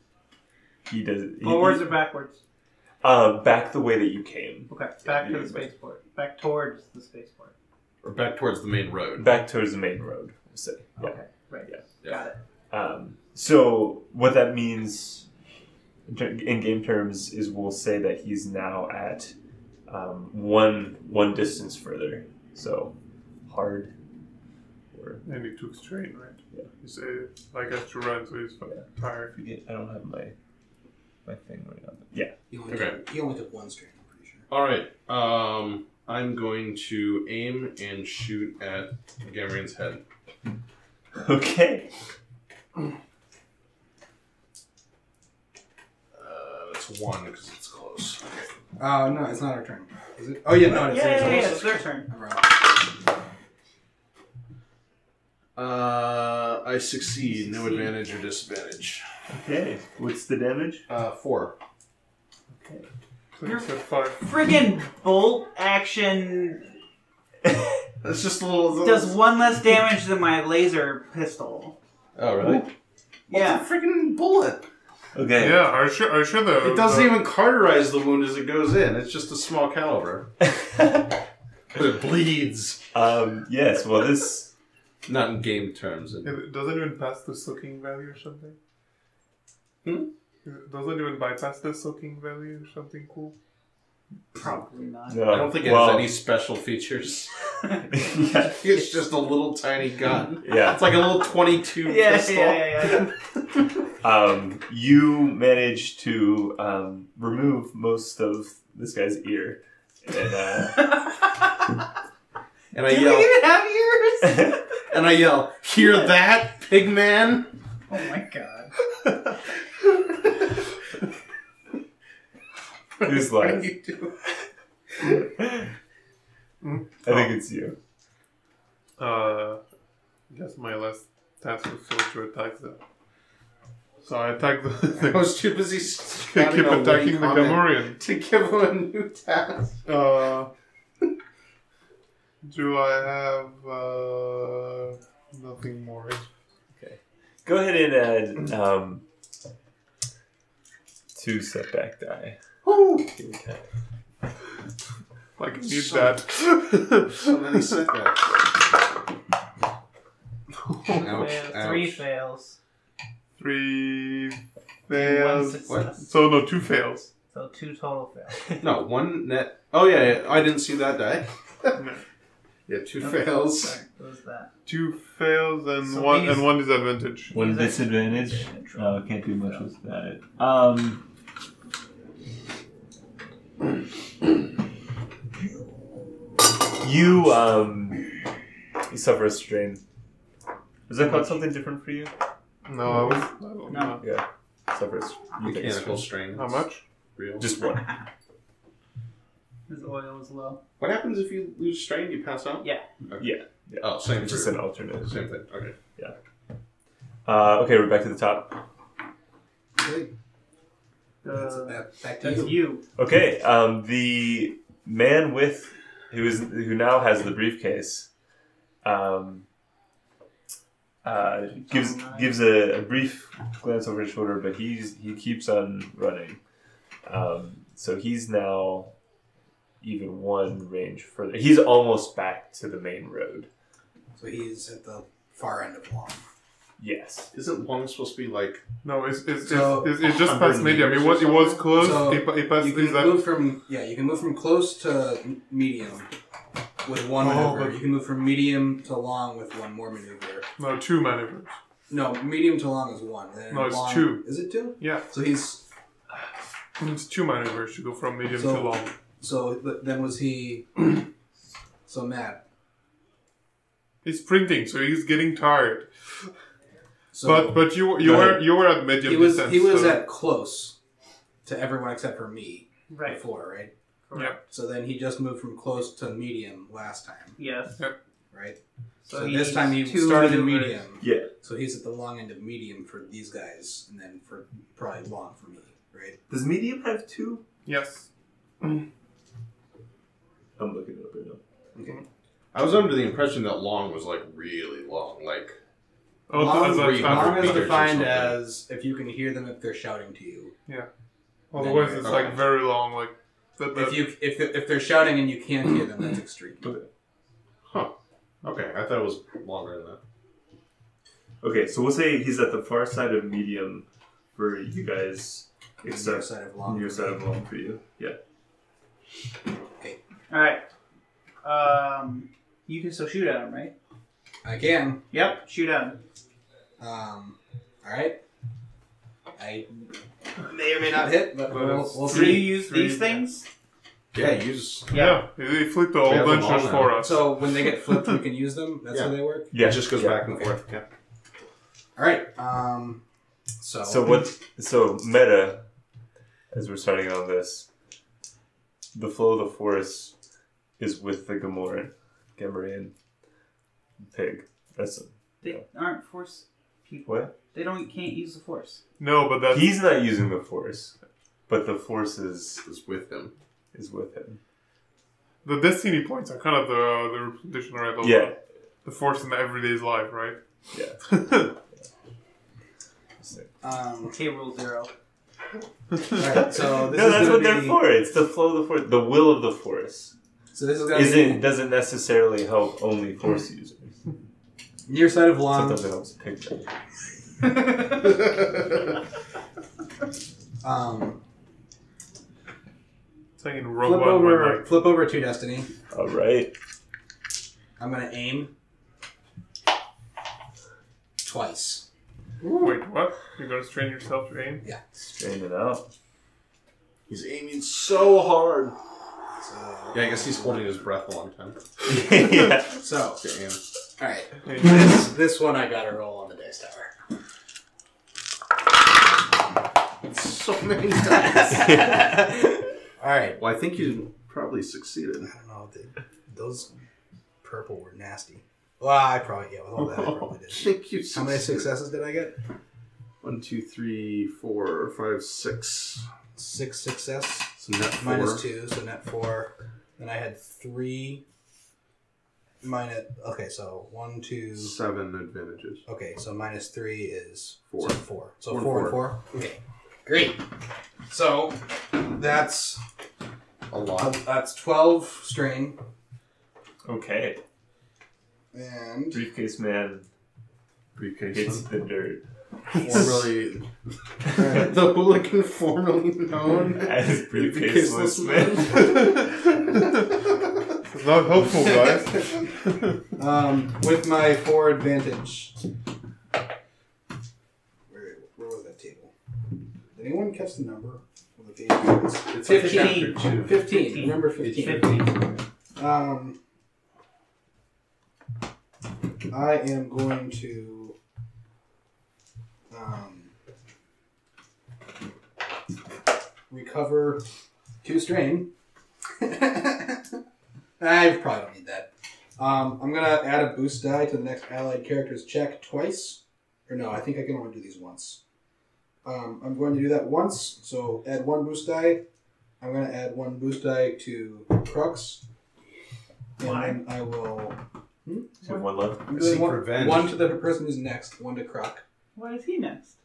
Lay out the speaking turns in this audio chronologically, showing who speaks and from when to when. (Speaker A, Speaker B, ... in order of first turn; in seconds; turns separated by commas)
Speaker A: 0.9-2.0, Speaker B: 1.4-2.4, Speaker A: 3.0-5.7, Speaker B: 4.7-7.5, Speaker C: 8.0-9.3, Speaker A: 9.2-11.2, Speaker B: 11.0-12.4, Speaker A: 12.7-15.3, Speaker A: 16.1-19.3, Speaker A: 19.9-23.0, Speaker A: 23.5-23.9, Speaker A: 24.9-25.2, Speaker D: 25.2-29.3, Speaker A: 28.6-30.4, Speaker A: 31.2-32.3, Speaker E: 32.5-34.5, Speaker C: 32.7-33.0, Speaker C: 34.5-40.0, Speaker A: 41.2-41.9, Speaker C: 46.1-48.3, Speaker E: 48.8-52.7, Speaker B: 50.6-52.1, Speaker C: 51.2-51.5, Speaker C: 55.6-59.0, Speaker B: 57.3-57.9, Speaker A: 59.3-60.9, Speaker C: 60.9-61.6, Speaker A: 62.6-62.9, Speaker D: 63.4-64.2, Speaker B: 63.5-66.7, Speaker C: 68.0-69.2, Speaker B: 68.8-71.8, Speaker C: 72.2-72.7, Speaker A: 72.4-72.7, Speaker B: 73.3-73.7, Speaker C: 73.3-74.7, Speaker A: 75.2-75.7, Speaker D: 75.4-77.2, Speaker C: 76.6-80.3, Speaker A: 80.4-81.1, Speaker C: 81.7-82.8, Speaker A: 82.9-84.5, Speaker C: 85.1-86.4, Speaker D: 86.2-88.6, Speaker C: 89.8-90.1, Speaker D: 90.5-93.4, Speaker B: 94.3-95.3, Speaker A: 95.1-96.1, Speaker C: 95.3-97.3, Speaker A: 97.9-98.7, Speaker C: 98.5-103.1, Speaker A: 100.4-100.8, Speaker B: 101.8-103.1, Speaker A: 104.0-110.9, Speaker C: 112.7-113.4, Speaker B: 112.9-114.6, Speaker C: 114.9-117.5, Speaker B: 117.9-118.7, Speaker C: 123.0-124.2, Speaker A: 123.0-123.7, Speaker A: 125.4-125.6, Speaker D: 126.6-127.4, Speaker A: 127.0-127.8, Speaker D: 129.0-129.6, Speaker D: 130.3-132.8, Speaker D: 134.0-135.4, Speaker C: 135.0-139.8, Speaker D: 136.3-138.0, Speaker D: 139.8-140.5, Speaker D: 142.4-146.3, Speaker A: 146.8-149.0, Speaker A: 151.2-152.4, Speaker C: 152.6-153.1, Speaker A: 153.1-153.7, Speaker D: 155.4-157.7, Speaker C: 155.6-156.2, Speaker C: 157.2-158.4, Speaker D: 160.7-160.9, Speaker B: 160.9-162.6, Speaker C: 160.9-162.0, Speaker D: 163.4-167.1, Speaker B: 164.9-166.1, Speaker C: 165.7-165.9, Speaker B: 167.3-168.6, Speaker C: 168.6-171.8, Speaker D: 171.8-172.0, Speaker C: 172.7-173.8, Speaker B: 173.0-174.5, Speaker D: 174.7-177.3, Speaker B: 175.8-176.6, Speaker A: 177.3-181.1, Speaker B: 177.3-179.6, Speaker A: 186.7-188.1, Speaker A: 188.9-189.8, Speaker A: 190.9-192.1, Speaker D: 192.7-194.0, Speaker B: 193.7-194.0, Speaker A: 194.0-196.1, Speaker C: 195.4-196.7, Speaker D: 196.3-196.8, Speaker C: 197.2-197.6, Speaker A: 197.4-197.9, Speaker B: 199.7-200.6, Speaker C: 200.8-203.3, Speaker A: 203.2-205.2, Speaker C: 203.8-205.8, Speaker A: 207.2-208.6, Speaker E: 209.8-210.1, Speaker B: 211.2-212.8, Speaker E: 211.3-212.6, Speaker A: 213.0-218.1, Speaker A: 218.8-219.5, Speaker A: 221.0-226.4, Speaker B: 221.6-222.3, Speaker A: 227.1-228.9, Speaker A: 229.8-233.5, Speaker E: 234.2-236.2, Speaker A: 236.8-237.3, Speaker C: 237.3-238.6, Speaker D: 238.8-243.2, Speaker E: 239.4-240.1, Speaker C: 239.9-242.0, Speaker E: 241.7-246.1, Speaker E: 246.8-250.5, Speaker D: 247.2-247.8, Speaker D: 250.6-251.6, Speaker E: 251.9-255.7, Speaker D: 253.5-255.1, Speaker D: 256.8-258.9, Speaker E: 258.3-261.1, Speaker E: 261.9-262.4, Speaker D: 264.0-265.9, Speaker E: 267.1-268.4, Speaker D: 267.2-270.0, Speaker A: 268.0-268.4, Speaker E: 269.0-270.8, Speaker E: 271.4-273.7, Speaker B: 272.9-273.2, Speaker B: 274.1-274.4, Speaker E: 274.5-277.4, Speaker B: 277.4-277.8, Speaker E: 278.3-278.6, Speaker B: 279.1-280.8, Speaker E: 279.1-286.2, Speaker A: 281.0-281.3, Speaker A: 286.3-287.4, Speaker D: 287.6-288.1, Speaker A: 290.6-291.4, Speaker C: 292.5-295.6, Speaker D: 296.3-297.7, Speaker E: 296.3-300.5, Speaker C: 296.6-298.4, Speaker D: 301.5-304.0, Speaker E: 301.6-302.4, Speaker C: 302.0-302.5, Speaker E: 303.7-306.7, Speaker D: 306.6-306.9, Speaker C: 307.7-310.0, Speaker A: 311.4-318.2, Speaker E: 315.8-317.3, Speaker B: 320.3-320.6, Speaker B: 321.4-323.7, Speaker E: 324.4-325.1, Speaker B: 325.1-326.0, Speaker E: 326.8-328.2, Speaker E: 329.4-332.6, Speaker D: 331.5-333.2, Speaker B: 332.1-333.5, Speaker C: 334.1-334.9, Speaker B: 334.9-335.2, Speaker D: 334.9-337.5, Speaker C: 336.0-337.0, Speaker E: 337.0-339.5, Speaker C: 338.9-340.9, Speaker A: 339.5-340.2, Speaker E: 342.0-343.0, Speaker E: 343.6-344.2, Speaker A: 343.8-345.6, Speaker A: 346.5-347.7, Speaker A: 348.9-350.1, Speaker A: 350.8-352.9, Speaker A: 354.1-355.6, Speaker B: 355.4-358.8, Speaker A: 357.1-357.3, Speaker D: 359.0-359.8, Speaker A: 359.5-360.9, Speaker A: 361.5-362.6, Speaker C: 362.6-363.3, Speaker A: 363.7-364.4, Speaker D: 365.4-370.4, Speaker A: 368.0-368.3, Speaker A: 370.7-371.2, Speaker D: 371.1-371.5, Speaker A: 373.2-373.5, Speaker E: 373.6-374.2, Speaker B: 374.1-374.9, Speaker E: 376.1-377.8, Speaker A: 376.2-380.1, Speaker E: 380.5-381.5, Speaker A: 380.9-384.0, Speaker E: 384.9-385.8, Speaker A: 385.5-386.6, Speaker E: 390.6-391.2, Speaker D: 393.4-394.7, Speaker E: 393.8-395.7, Speaker A: 395.9-396.5, Speaker E: 397.8-398.5, Speaker E: 401.2-401.9, Speaker D: 402.6-404.6, Speaker A: 405.0-405.9, Speaker C: 407.1-408.8, Speaker E: 409.4-410.7, Speaker C: 409.9-411.6, Speaker A: 411.9-412.8, Speaker E: 412.8-413.2, Speaker C: 413.2-413.6, Speaker E: 414.0-416.9, Speaker D: 414.5-414.8, Speaker C: 420.1-422.0, Speaker E: 421.1-423.4, Speaker C: 423.4-425.3, Speaker E: 425.2-426.7, Speaker E: 427.4-432.4, Speaker D: 429.8-430.2, Speaker C: 430.5-431.7, Speaker C: 433.2-436.1, Speaker E: 436.4-441.2, Speaker C: 437.6-438.4, Speaker E: 442.6-444.8, Speaker C: 444.6-445.8, Speaker E: 445.9-450.5, Speaker C: 447.7-449.1, Speaker E: 451.1-452.8, Speaker C: 453.7-454.2, Speaker E: 454.0-455.8, Speaker A: 456.9-457.4, Speaker E: 458.5-459.2, Speaker A: 459.1-460.1, Speaker C: 461.0-461.7, Speaker A: 461.2-462.2, Speaker C: 462.7-463.6, Speaker C: 464.2-469.1, Speaker E: 464.4-464.7, Speaker A: 466.8-469.2, Speaker D: 470.9-472.3, Speaker E: 471.8-472.1, Speaker E: 473.2-475.6, Speaker E: 477.9-479.1, Speaker E: 479.9-485.2, Speaker C: 482.3-483.7, Speaker B: 482.4-485.1, Speaker C: 484.3-485.3, Speaker E: 485.8-486.4, Speaker E: 489.3-491.0, Speaker E: 492.7-493.3, Speaker E: 496.5-497.2, Speaker E: 497.8-498.5, Speaker E: 499.2-500.2, Speaker E: 500.8-508.2, Speaker E: 509.0-512.0, Speaker E: 512.6-515.2, Speaker E: 516.4-518.4, Speaker B: 516.4-516.8, Speaker A: 518.4-519.5, Speaker E: 519.1-521.8, Speaker C: 519.1-520.3, Speaker B: 522.1-523.0